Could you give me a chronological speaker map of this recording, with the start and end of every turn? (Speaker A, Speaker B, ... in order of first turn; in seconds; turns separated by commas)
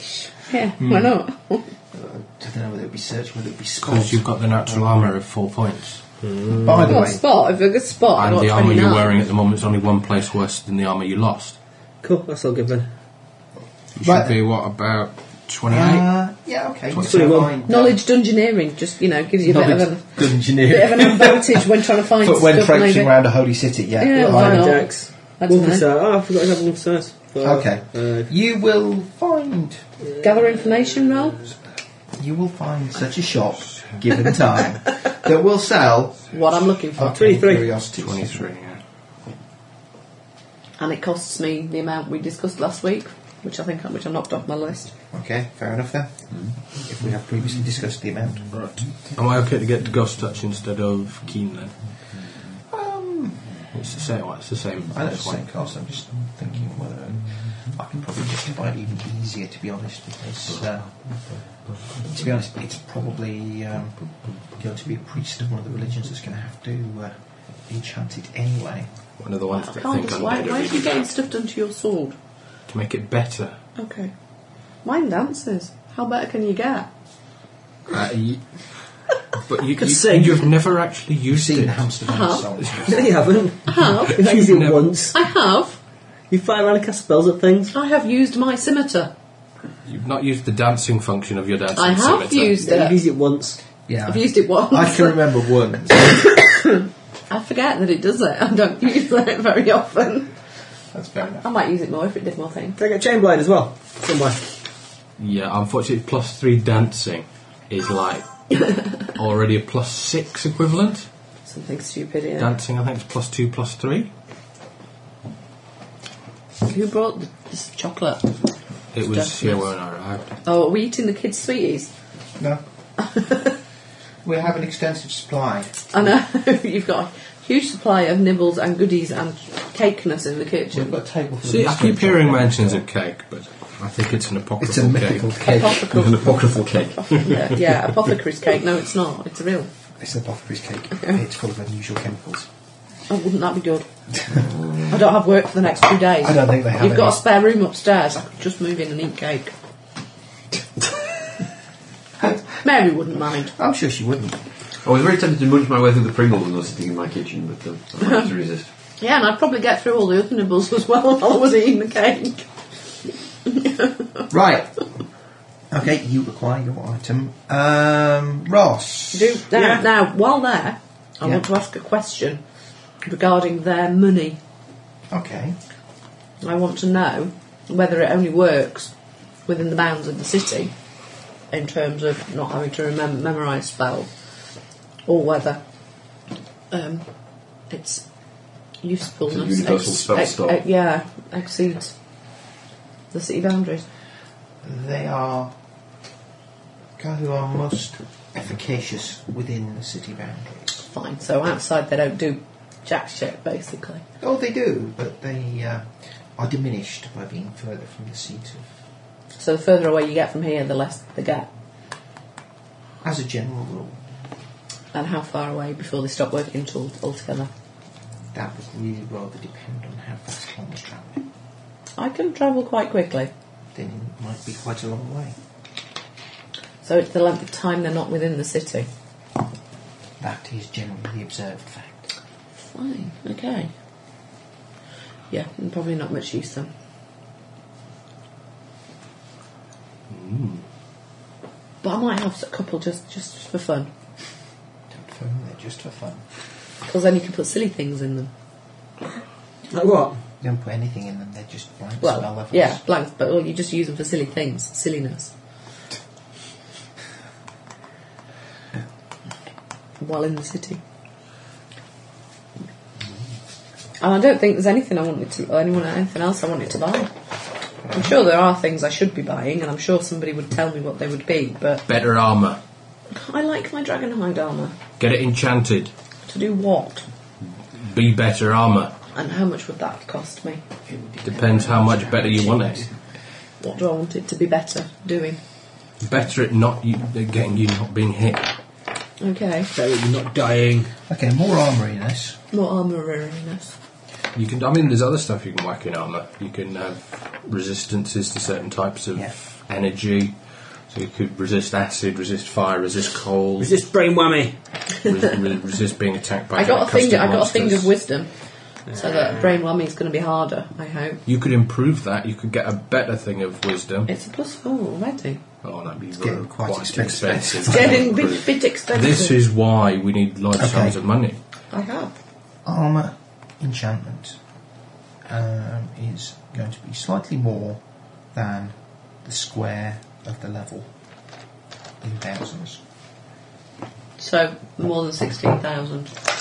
Speaker A: 0.5-1.7, Speaker B: 0.8-1.1, Speaker C: 1.9-5.2, Speaker B: 3.8-7.0, Speaker C: 6.6-7.2, Speaker A: 6.9-9.2, Speaker B: 8.1-11.6, Speaker D: 12.0-12.9, Speaker B: 13.9-16.1, Speaker C: 14.0-14.4, Speaker C: 15.7-18.0, Speaker B: 16.9-17.4, Speaker D: 17.0-17.5, Speaker A: 17.6-23.2, Speaker C: 19.5-24.8, Speaker B: 19.6-20.9, Speaker A: 24.0-25.8, Speaker D: 24.1-28.3, Speaker C: 27.4-29.8, Speaker D: 30.1-31.3, Speaker A: 30.2-31.5, Speaker C: 32.2-36.3, Speaker A: 36.3-37.2, Speaker C: 36.9-38.5, Speaker D: 37.0-37.8, Speaker B: 38.0-38.8, Speaker A: 40.8-44.9, Speaker C: 45.1-48.5, Speaker B: 48.5-52.2, Speaker C: 52.7-53.6, Speaker B: 53.7-55.5, Speaker C: 54.9-68.9, Speaker B: 69.2-71.0, Speaker A: 69.5-72.2, Speaker B: 72.7-73.6, Speaker A: 73.8-74.1, Speaker A: 74.8-76.9, Speaker B: 77.9-81.9, Speaker D: 79.7-80.6, Speaker C: 81.3-83.1, Speaker A: 82.1-82.5, Speaker B: 82.6-82.9, Speaker D: 82.8-85.2, Speaker A: 83.7-84.2, Speaker B: 84.1-84.9, Speaker A: 85.1-85.8, Speaker D: 86.3-87.7, Speaker A: 87.7-89.1, Speaker B: 89.8-92.5, Speaker A: 91.8-93.0, Speaker D: 92.6-93.6, Speaker C: 93.9-96.2, Speaker A: 94.0-95.3, Speaker A: 96.1-100.3, Speaker C: 100.9-101.5, Speaker A: 101.4-102.8, Speaker D: 102.8-104.5, Speaker B: 105.2-111.1, Speaker A: 111.4-112.5, Speaker B: 112.4-114.1, Speaker A: 116.6-118.4, Speaker B: 118.9-120.3, Speaker A: 119.0-119.7, Speaker A: 120.4-121.9, Speaker A: 123.0-123.5, Speaker C: 124.2-125.8, Speaker A: 125.9-131.0, Speaker C: 130.7-132.8, Speaker B: 131.4-135.3, Speaker C: 134.6-136.0, Speaker A: 135.4-136.4, Speaker E: 135.7-137.5, Speaker A: 136.9-139.7, Speaker C: 140.0-142.5, Speaker A: 143.1-143.9, Speaker E: 144.4-144.9, Speaker A: 144.9-149.5, Speaker C: 146.2-147.2, Speaker A: 152.6-153.5, Speaker C: 153.4-154.5, Speaker E: 154.8-158.7, Speaker A: 159.0-162.5, Speaker A: 163.5-163.9, Speaker C: 164.3-164.8, Speaker C: 165.7-169.4, Speaker A: 169.1-172.4, Speaker D: 169.5-169.8, Speaker A: 173.0-174.4, Speaker C: 175.1-175.6, Speaker A: 176.4-178.9, Speaker A: 179.4-180.7, Speaker A: 181.5-184.1, Speaker A: 185.1-185.6, Speaker A: 186.7-188.1, Speaker A: 188.8-191.9, Speaker E: 189.2-190.6, Speaker A: 193.1-193.8, Speaker C: 194.6-195.5, Speaker C: 197.0-200.9, Speaker A: 200.9-204.0, Speaker C: 204.2-208.7, Speaker A: 209.4-211.5, Speaker C: 213.0-214.0, Speaker A: 214.9-217.5, Speaker C: 218.3-221.2, Speaker A: 221.9-223.3, Speaker C: 223.7-225.3, Speaker A: 226.8-228.9, Speaker C: 230.2-232.1, Speaker A: 232.6-233.7, Speaker A: 235.3-236.7, Speaker B: 240.1-240.6, Speaker A: 241.8-243.9, Speaker C: 244.9-246.2, Speaker A: 246.8-248.3, Speaker D: 249.7-250.2, Speaker C: 250.4-252.8, Speaker A: 252.0-255.3, Speaker A: 260.0-260.8, Speaker A: 264.0-267.1, Speaker C: 267.8-268.1, Speaker A: 267.9-271.8, Speaker B: 271.9-272.6, Speaker A: 273.1-274.8, Speaker B: 275.0-275.9, Speaker A: 276.2-277.1, Speaker B: 277.7-278.9, Speaker A: 279.1-280.6, Speaker C: 280.9-283.0, Speaker B: 281.2-282.9, Speaker A: 283.6-285.4, Speaker B: 286.0-288.5, Speaker A: 289.2-289.7, Speaker D: 289.7-290.9, Speaker C: 291.1-292.4, Speaker A: 292.5-293.8, Speaker B: 294.3-303.8, Speaker D: 303.6-304.6, Speaker B: 305.0-307.9, Speaker A: 306.5-308.3, Speaker A: 308.9-311.2, Speaker D: 308.9-309.6, Speaker B: 311.2-314.1, Speaker A: 314.1-315.4, Speaker B: 315.6-321.4, Speaker C: 316.1-318.4, Speaker A: 317.7-319.4, Speaker C: 320.6-321.0, Speaker A: 321.7-322.1, Speaker C: 322.6-324.4, Speaker C: 325.2-330.9, Speaker C: 332.0-332.8, Speaker A: 334.2-336.1